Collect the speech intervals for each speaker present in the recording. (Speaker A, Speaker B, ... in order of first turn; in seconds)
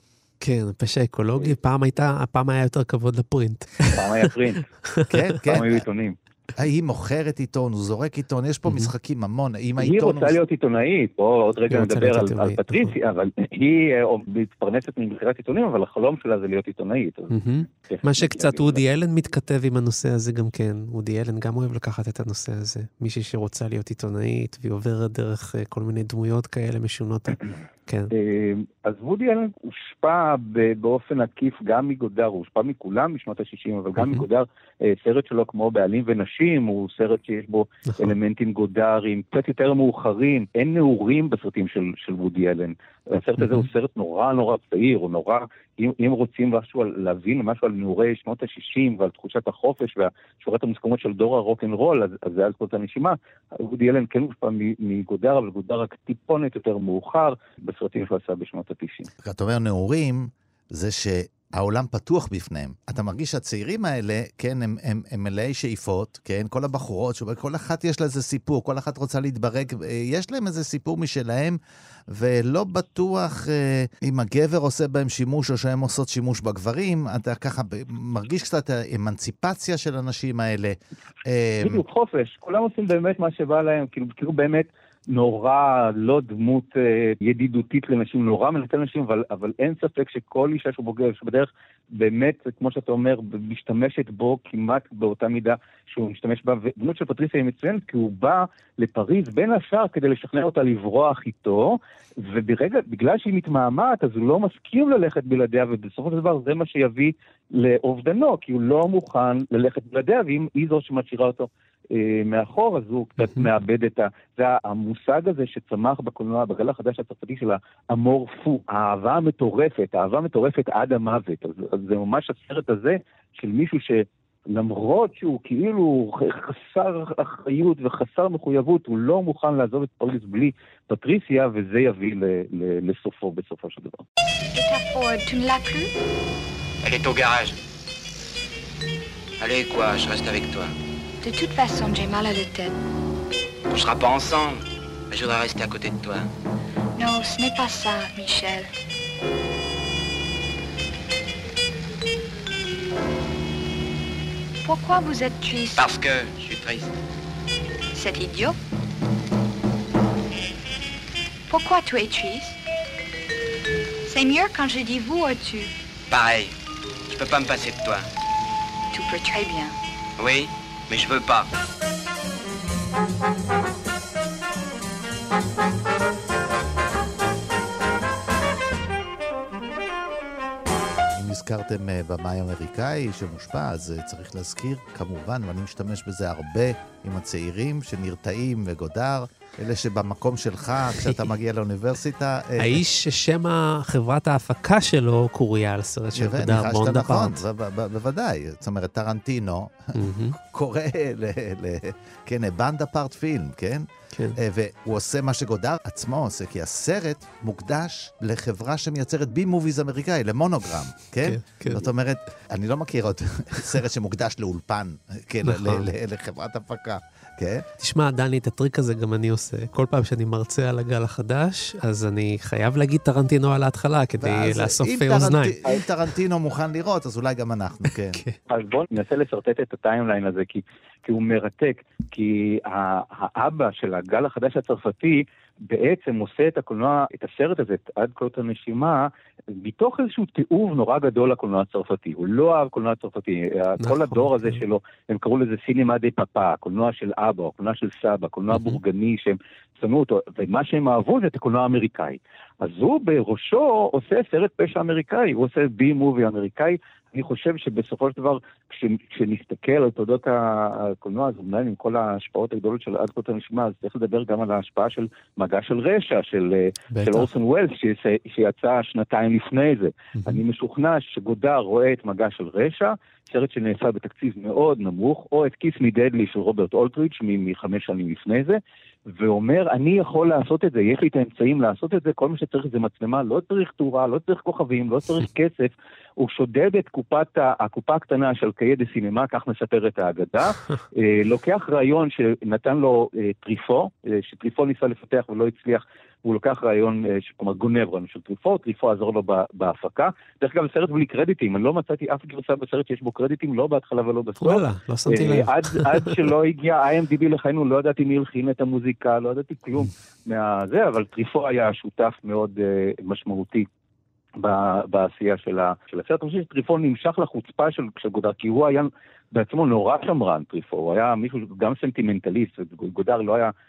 Speaker A: 0.4-4.2, 11.7-12.9, 17.3-28.1, 34.0-34.2, 37.9-38.1, 43.4-43.7, 113.2-113.5, 192.6-197.4, 199.9-200.4, 211.2-211.9, 215.4-215.9, 217.8-225.6, 228.1-228.4, 243.8-244.6, 248.5-248.8, 266.9-267.3, 304.4-306.2
Speaker B: 3.9-4.7, 5.5-6.2, 9.8-18.8, 28.1-59.1, 81.6-134.0, 228.5-313.7, 314.4-323.5
Speaker C: 5.1-5.8, 6.6-10.4, 59.2-71.6, 72.1-81.8, 181.1-192.8, 196.2-217.7, 224.2-228.2
Speaker D: 134.5-135.9, 141.2-142.8, 147.0-148.7, 154.6-155.9, 157.9-158.6, 161.5-162.6, 164.1-165.7, 168.9-169.8
Speaker E: 136.8-137.6, 139.4-140.7, 143.7-146.3, 155.8-156.9, 166.1-166.5, 167.1-168.1, 170.2-171.5